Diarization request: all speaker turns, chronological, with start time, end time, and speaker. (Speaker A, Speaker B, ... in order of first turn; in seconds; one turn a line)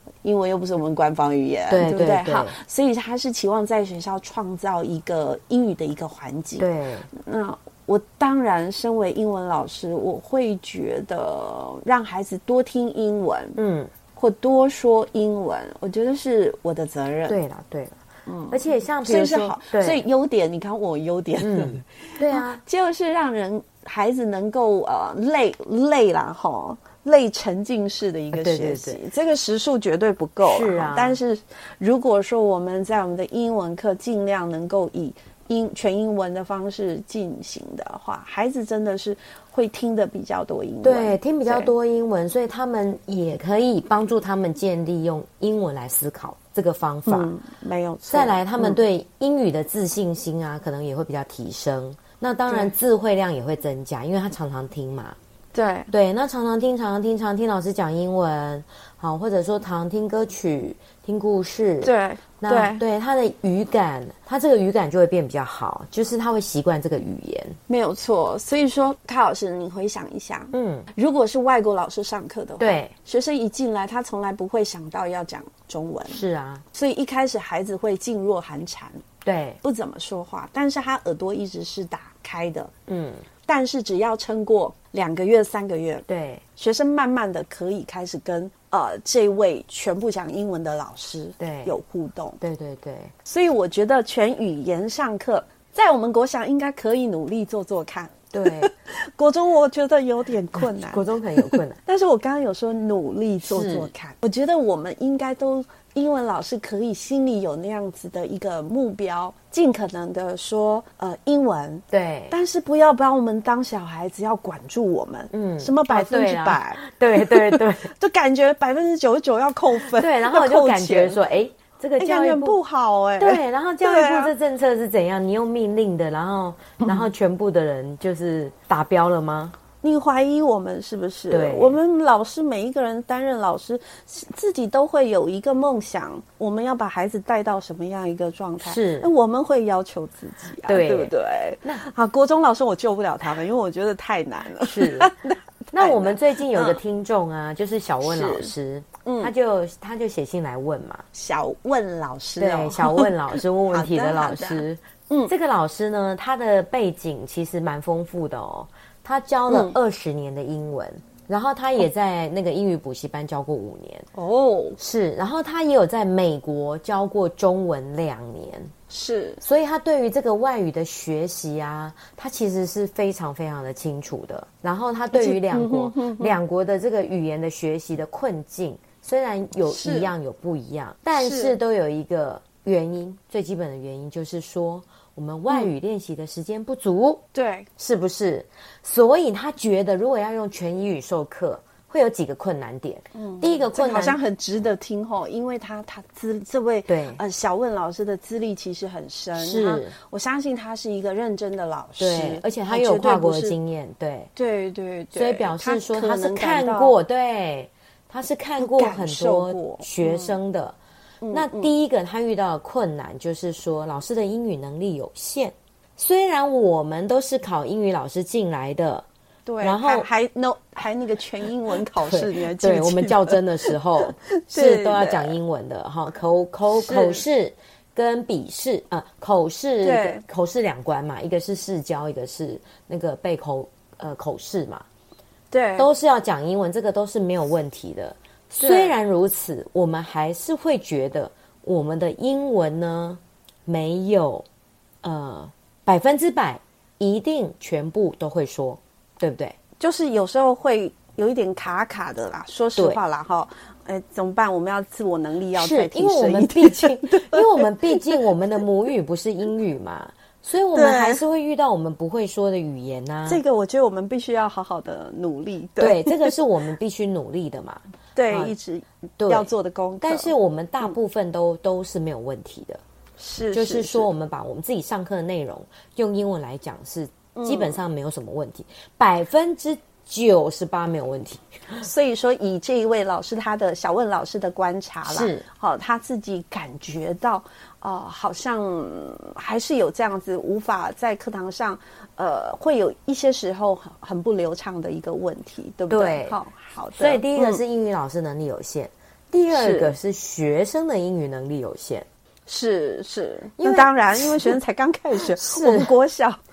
Speaker A: 0.2-13.6
Speaker B: 1.7-2.6
Speaker B: 6.6-7.1
Speaker B: 13.6-13.9
Speaker A: 14.2-17.4
Speaker B: 17.3-20.0
Speaker A: 18.2-41.7
Speaker B: 21.4-22.6
Speaker B: 28.3-29.0
Speaker B: 30.4-31.2
Speaker B: 40.8-47.3
Speaker A: 47.1-48.8
Speaker B: 48.1-55.2
Speaker A: 52.5-52.7
Speaker A: 55.5-55.9
Speaker B: 55.9-67.6
Speaker A: 61.8-62.8
Speaker A: 67.7-76.2
Speaker B: 70.5-70.9
Speaker B: 72.6-72.9
Speaker B: 76.1-76.6
Speaker A: 76.7-79.0
Speaker B: 79.2-79.6
Speaker A: 79.6-82.7
Speaker B: 82.9-83.2
Speaker A: 83.5-86.1
Speaker B: 86.1-86.4
Speaker A: 86.6-92.4
Speaker B: 91.4-91.7
Speaker B: 92.4-93.1
Speaker A: 93.2-121.2
Speaker B: 98.3-98.7
Speaker B: 100.6-101.8
Speaker B: 103.4-103.9
Speaker B: 111.9-112.3
Speaker B: 115.3-117.9
Speaker B: 119.9-122.6
Speaker A: 122.0-124.3
Speaker B: 123.2-129.6
Speaker A: 129.8-146.8
Speaker B: 131.3-131.8
Speaker B: 138.6-139.1
Speaker B: 140.7-141.1
Speaker B: 144.6-151.1
Speaker A: 148.0-148.5
Speaker A: 149.1-149.3
Speaker A: 151.1-155.3
Speaker B: 152.4-164.1
Speaker A: 159.5-159.8
Speaker A: 164.1-164.8
Speaker B: 164.8-168.7
Speaker A: 168.9-169.4
Speaker B: 169.4-187.2
Speaker A: 175.1-176.4
Speaker A: 179.7-180.1
Speaker A: 181.2-181.6
Speaker A: 187.3-187.7
Speaker B: 187.8-194.2
Speaker A: 193.1-203.6
Speaker B: 196.9-197.2
Speaker B: 199.4-199.9
Speaker B: 202.0-204.3
Speaker A: 204.4-207.0
Speaker B: 205.1-210.8
Speaker A: 208.6-210.4
Speaker A: 211.2-211.7
Speaker B: 211.3-219.1
Speaker A: 219.5-225.4
Speaker B: 219.6-220.1
Speaker B: 222.0-234.8
Speaker A: 226.7-227.2
Speaker A: 229.8-230.2
Speaker A: 235.5-235.9
Speaker B: 235.8-244.4
Speaker A: 238.6-239.0
Speaker B: 245.0-249.6
Speaker A: 249.8-258.2
Speaker B: 255.6-263.4
Speaker A: 260.8-261.2
Speaker A: 263.3-266.4
Speaker B: 265.8-268.5
Speaker A: 268.1-270.3
Speaker B: 269.2-269.5
Speaker B: 270.0-272.8
Speaker A: 273.2-274.1
Speaker B: 273.5-281.4
Speaker A: 277.4-277.8
Speaker A: 281.8-297.6
Speaker B: 285.1-285.4
Speaker B: 295.9-296.4
Speaker B: 296.9-302.1
Speaker A: 299.5-300.0
Speaker A: 302.5-306.4
Speaker B: 303.6-304.6
Speaker B: 305.3-305.9